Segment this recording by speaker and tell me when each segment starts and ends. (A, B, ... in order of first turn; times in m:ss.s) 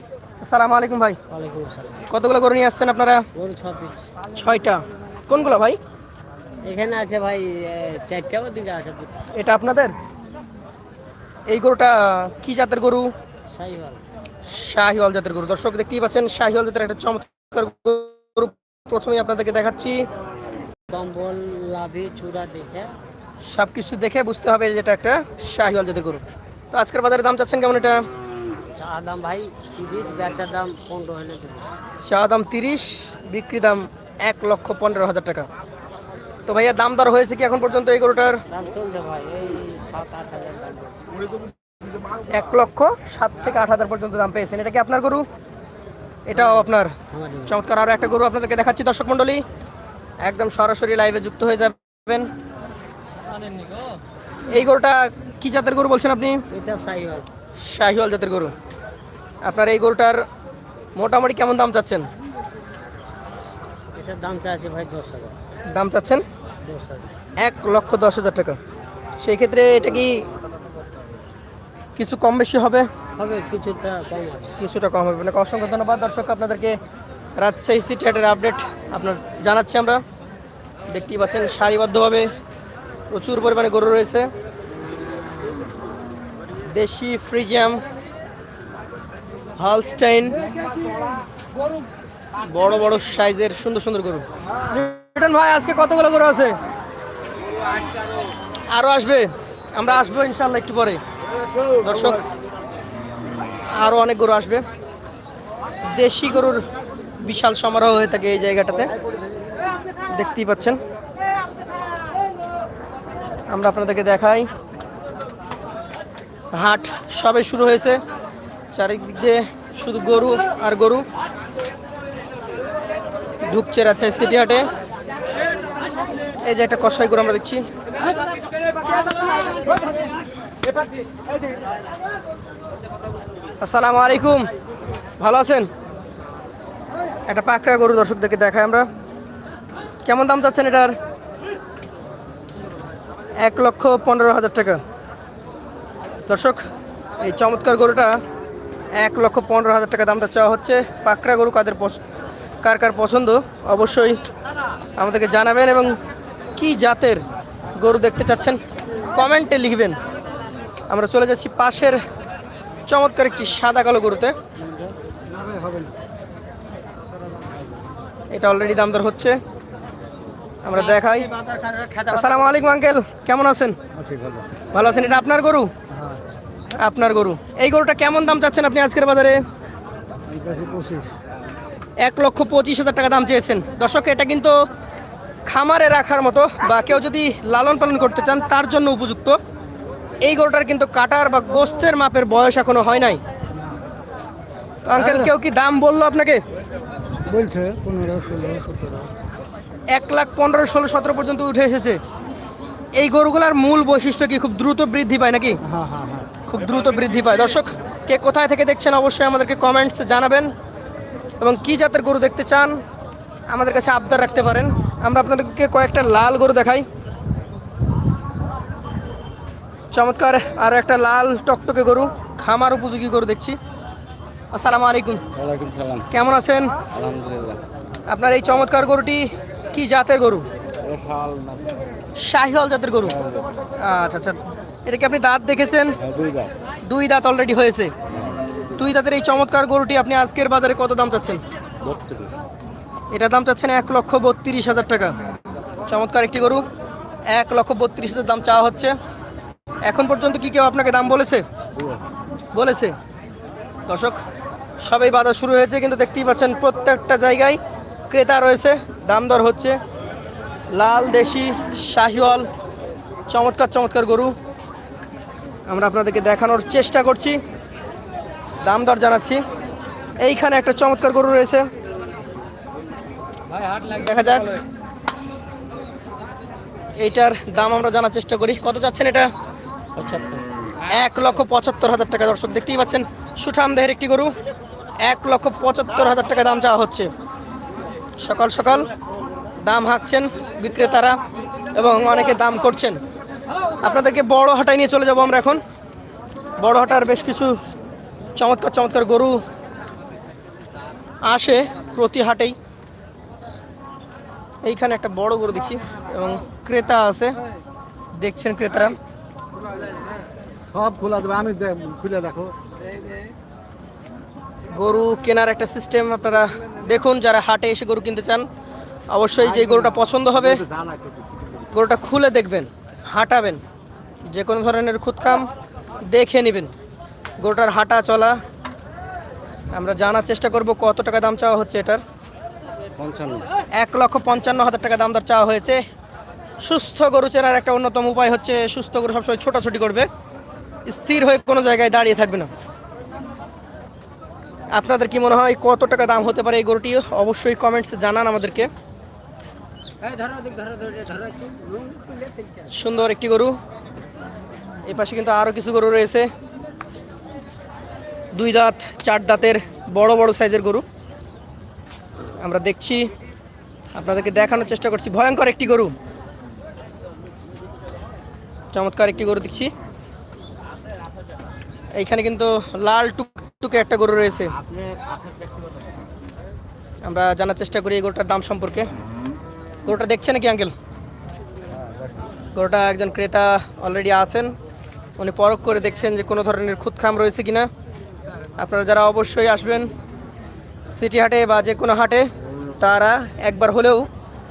0:00.4-0:01.2 A
0:01.3-0:02.1 B
0:02.1-0:03.2 A
0:03.3-0:04.0 B
0:04.4-0:05.8 A
0:06.6-0:09.3 B
0:09.3-0:09.9 A
0:11.5-0:13.1 A
0:13.5-0:14.0 B
0:14.4-0:20.1 A
0:20.9-0:22.9 B
0:23.4-0:28.0 A
0:28.7-0:31.7 B
0:32.0-0:35.5 A
0:36.5-0:38.4 A
0:38.5-0:41.0 B
0:42.3-0:45.2 A
0:46.3-0:46.9 A
0:46.3-0:47.6 B
0:47.5-0:49.4 A
0:50.2-0:52.3 A
0:54.5-0:56.4 A
0:56.5-0:57.3 B
0:57.6-0:58.5 A
0:59.4-1:00.2 A
1:00.9-1:02.1 A
1:03.9-1:05.4 B
1:05.7-1:06.2 A
1:06.6-1:07.2 B
1:07.4-1:08.6 A
1:09.2-1:10.2 A
1:12.0-1:12.9 A
1:13.2-1:14.6 B
1:14.6-1:16.8 A
1:17.4-1:20.0 A
1:20.9-1:22.3 A
1:23.1-1:24.3 A
1:26.6-1:27.8 A
1:29.6-1:30.4 A
1:32.4-1:36.6 A
1:38.7-1:41.0 A
1:41.8-1:42.2 A
1:43.7-1:44.6 A
1:45.9-1:46.6 A
1:47.2-1:48.9 A
1:50.1-1:50.8 A
1:53.5-1:54.5 A
1:56.5-1:58.0 A
1:58.7-2:01.0 A
2:03.5-2:04.7 A
2:06.4-2:07.6 A
2:13.6-2:14.5 A
2:15.2-2:15.7 A
2:17.3-2:18.8 A
2:20.0-2:20.9 A
2:23.4-2:24.8 A
2:26.3-2:26.6 A
2:27.2-2:28.2 A
2:29.0-2:32.0 A
2:32.6-2:34.2 A
2:35.0-2:35.9 A
2:36.6-2:37.2 A
2:37.8-2:38.6 A
2:39.1-2:40.0 A
2:40.9-2:42.0 A
2:42.9-2:44.3 A
2:45.4-2:45.9 C
2:48.3-2:49.4 A
2:50.6-2:51.3 A
2:50.8-2:52.1 B
2:52.1-2:53.8 A
2:54.0-2:54.4 C
2:54.7-2:55.7 A
2:56.8-2:59.4 A
3:00.3-3:01.1 C
3:02.0-3:04.6 A
3:05.4-3:09.4 A
3:10.2-3:13.2 A
3:14.8-3:16.4 A
3:17.2-3:19.1 C
3:19.9-3:22.0 A
3:23.0-3:25.6 A
3:25.7-3:26.3 C
3:26.4-3:30.5 A
3:31.4-3:32.8 A
3:33.5-3:36.8 A
3:39.9-3:43.6 A
3:44.5-3:45.2 A
3:45.4-3:46.1 C
3:46.1-3:46.8 A
3:46.9-3:47.6 C
3:48.1-3:50.4 A
3:50.8-3:51.8 C
3:52.2-3:53.2 A
3:53.8-3:56.0 A
3:56.0-3:56.5 C
3:56.8-3:57.9 A
3:58.8-4:01.4 A
4:01.8-4:02.3 C
4:03.1-4:05.2 A
4:05.9-4:06.6 A
4:07.3-4:08.9 A
4:09.8-4:11.4 A
4:12.5-4:12.9 A
4:13.9-4:14.2 A
4:14.8-4:19.8 A
4:20.7-4:22.5 A
4:23.3-4:24.3 A
4:25.7-4:27.4 A
4:28.6-4:29.4 A
4:30.2-4:31.7 A
4:33.5-4:33.8 B
4:33.8-4:34.6 A
4:37.0-4:39.3 A
4:40.0-4:40.4 B
4:40.8-4:44.3 A
4:45.0-4:47.1 A
4:48.2-4:48.9 A
4:49.6-4:51.2 A
4:51.7-4:53.0 A
4:53.8-4:55.6 A
4:56.6-4:57.5 A
4:58.4-4:59.4 A
5:01.2-5:02.6 A
5:04.6-5:07.4 A
5:08.2-5:09.0 A
5:10.7-5:12.6 C
5:14.7-5:18.4 A
5:19.1-5:20.6 A
5:20.6-5:21.4 C
5:21.7-5:23.6 A
5:24.3-5:25.5 A
5:26.1-5:26.7 A
5:27.4-5:28.4 A
5:29.7-5:32.0 A
5:33.0-5:33.4 C
5:33.8-5:35.8 A
5:36.6-5:40.1 A
5:40.8-5:42.5 A
5:44.7-5:48.7 A
5:50.0-5:52.7 B
5:52.7-5:53.6 A
5:54.8-5:56.3 A
5:58.3-6:00.8 A
6:02.4-6:03.1 A
6:03.9-6:05.9 A
6:08.7-6:09.7 A
6:11.9-6:14.5 A
6:17.0-6:18.9 A
6:19.8-6:20.7 A
6:22.5-6:24.5 A
6:25.2-6:27.7 A
6:28.6-6:29.9 A
6:30.9-6:32.3 A
6:32.8-6:34.1 A